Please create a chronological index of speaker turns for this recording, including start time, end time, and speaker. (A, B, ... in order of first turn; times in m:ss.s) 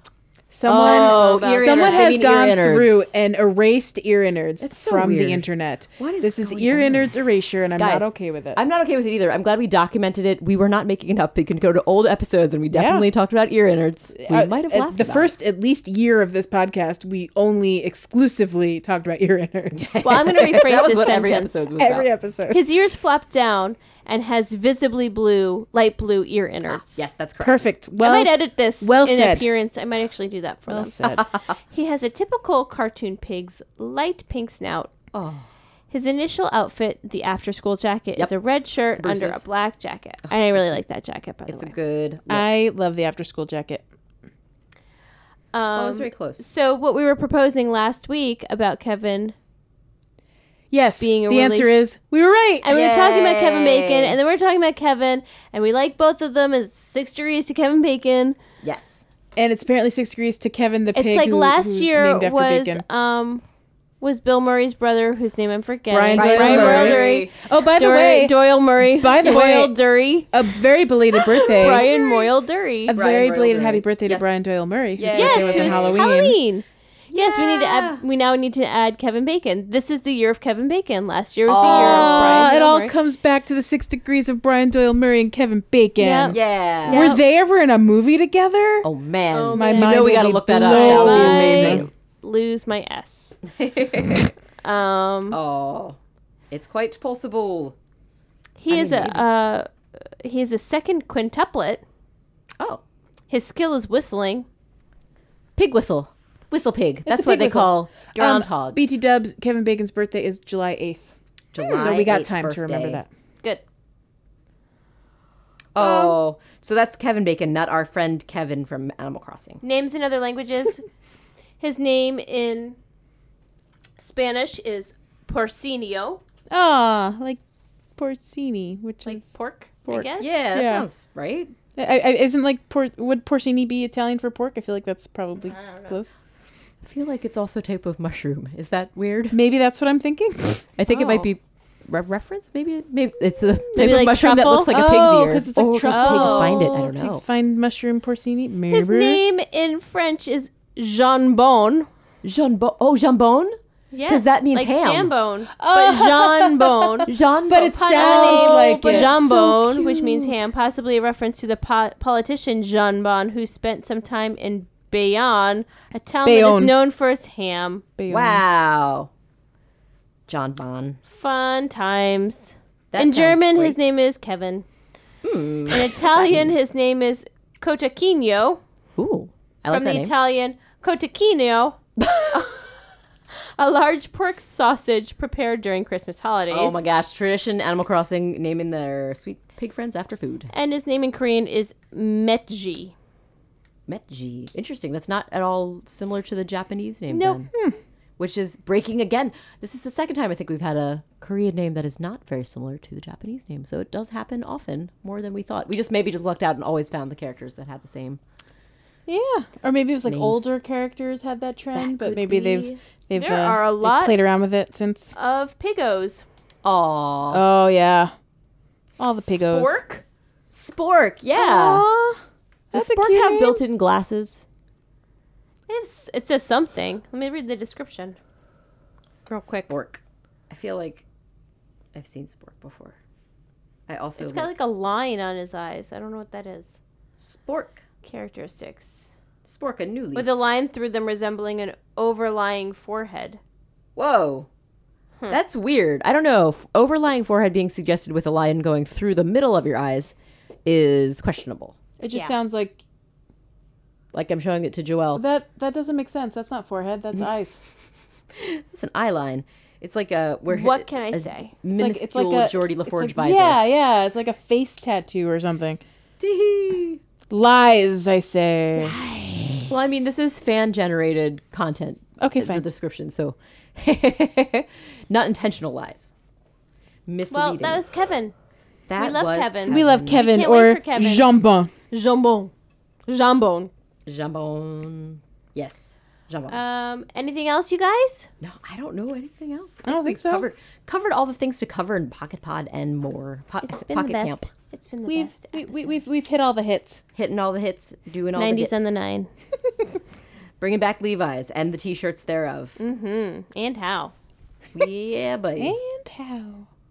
0:00.5-0:08.6 A
0:00.6-0:03.1 B
0:00.7-0:02.1 C
0:04.6-0:05.4 B
0:06.0-0:07.1 B
0:07.8-0:15.3 B
0:12.7-0:13.1 A
0:14.2-0:20.7 A
0:19.7-0:22.1 B
0:20.0-0:21.6 C
0:21.8-0:22.6 A
0:22.5-0:27.0 C
0:26.7-0:27.7 B
0:27.4-0:29.4 A
0:28.0-0:31.1 C
0:30.7-0:31.2 A
0:31.0-0:31.5 B
0:31.7-0:34.9 C
0:35.1-0:35.5 B
0:35.9-0:41.7 C
0:39.0-0:39.4 B
0:40.2-0:40.8 B
0:41.5-0:42.6 B
0:42.3-0:43.8 A
0:45.5-0:49.3 C
0:45.7-0:46.4 B
0:50.7-0:52.6 A
0:51.0-0:51.8 C
0:52.6-0:58.4 C
0:52.7-0:54.2 B
0:58.6-0:59.0 B
0:59.4-1:02.8 A
1:00.9-1:03.4 C
1:04.0-1:10.3 C
1:05.9-1:09.8 A
1:06.2-1:07.3 B
1:10.3-1:11.9 A
1:11.2-1:12.2 B
1:11.5-1:13.0 C
1:12.9-1:16.4 A
1:12.9-1:14.3 B
1:15.0-1:16.1 B
1:15.1-1:22.9 C
1:17.1-1:18.0 B
1:21.5-1:22.5 B
1:21.6-1:28.9 A
1:26.0-1:27.2 C
1:26.3-1:27.1 B
1:28.8-1:31.9 B
1:29.3-1:33.4 C
1:29.5-1:31.9 A
1:33.5-1:34.3 B
1:34.6-1:35.4 C
1:35.3-1:36.0 B
1:36.5-1:37.7 B
1:38.6-1:39.7 C
1:38.7-1:39.2 B
1:40.2-1:41.8 C
1:43.3-1:44.5 C
1:45.6-1:49.0 B
1:47.0-1:53.1 A
1:51.5-1:53.0 B
1:55.7-1:59.6 B
1:55.8-1:56.1 C
1:59.6-2:00.8 C
2:01.6-2:02.8 C
2:04.0-2:06.2 C
2:06.5-2:07.4 A
2:08.0-2:09.3 A
2:09.0-2:10.3 C
2:09.8-2:10.9 A
2:10.2-2:11.5 B
2:11.8-2:16.1 A
2:15.4-2:16.0 C
2:16.8-2:19.4 B
2:19.3-2:20.6 A
2:20.8-2:27.2 B
2:20.9-2:21.3 C
2:23.7-2:24.8 C
2:24.7-2:29.2 A
2:25.9-2:26.7 C
2:28.7-2:31.9 C
2:32.2-2:33.5 B
2:33.9-2:47.8 C
2:34.1-2:35.1 B
2:35.6-2:40.4 A
2:37.1-2:39.2 B
2:46.2-2:46.7 A
2:48.0-2:48.4 A
2:48.1-2:49.1 B
2:50.3-2:51.0 B
2:51.1-2:54.6 C
2:52.9-2:53.9 B
2:55.2-2:56.5 B
2:55.7-2:58.6 C
2:59.0-3:00.1 B
2:59.7-3:01.8 C
3:02.0-3:02.6 B
3:02.3-3:02.8 C
3:03.3-3:06.8 C
3:06.5-3:10.5 B
3:10.5-3:12.9 C
3:13.9-3:17.5 B
3:17.1-3:17.4 C
3:18.2-3:28.2 B
3:29.1-3:35.1 A
3:30.0-3:30.5 B
3:31.7-3:32.8 B
3:33.1-3:34.2 C
3:35.1-3:36.2 C
3:36.6-3:37.4 B
3:37.3-3:38.1 A
3:39.0-3:39.8 A
3:39.4-3:40.0 C
3:40.5-3:41.9 B
3:41.3-3:42.2 A
3:42.7-3:43.6 A
3:42.7-3:44.4 B
3:45.7-3:48.2 C
3:49.3-3:49.7 C
3:49.4-3:51.0 B
3:51.9-3:53.0 B
3:53.9-3:54.6 B
3:54.2-3:56.8 C
3:57.2-3:57.8 B
3:58.0-3:59.1 C
3:59.4-4:00.3 B
4:00.1-4:03.4 C
4:04.0-4:04.5 B
4:05.3-4:10.1 B
4:10.6-4:11.8 B
4:12.0-4:12.8 A
4:14.1-4:15.2 B
4:15.1-4:17.6 A
4:18.3-4:23.6 B
4:20.5-4:21.5 C
4:21.7-4:25.8 A
4:26.2-4:27.0 B
4:27.3-4:29.0 A
4:28.8-4:36.1 B
4:32.2-4:32.6 A
4:37.1-4:38.0 B
4:37.3-4:38.3 C
4:38.9-4:40.2 B
4:39.0-4:41.3 C
4:39.7-4:41.7 A
4:41.9-4:42.5 C
4:43.1-4:43.7 C
4:44.0-4:46.6 B
4:46.5-4:48.3 C
4:48.4-4:54.5 B
4:49.8-4:50.5 A
4:53.6-4:55.9 C
4:55.0-4:57.0 A
4:57.1-4:58.9 B
4:58.3-4:59.3 C
5:00.6-5:02.8 B
5:02.8-5:04.1 C
5:04.7-5:05.7 B
5:05.6-5:06.7 A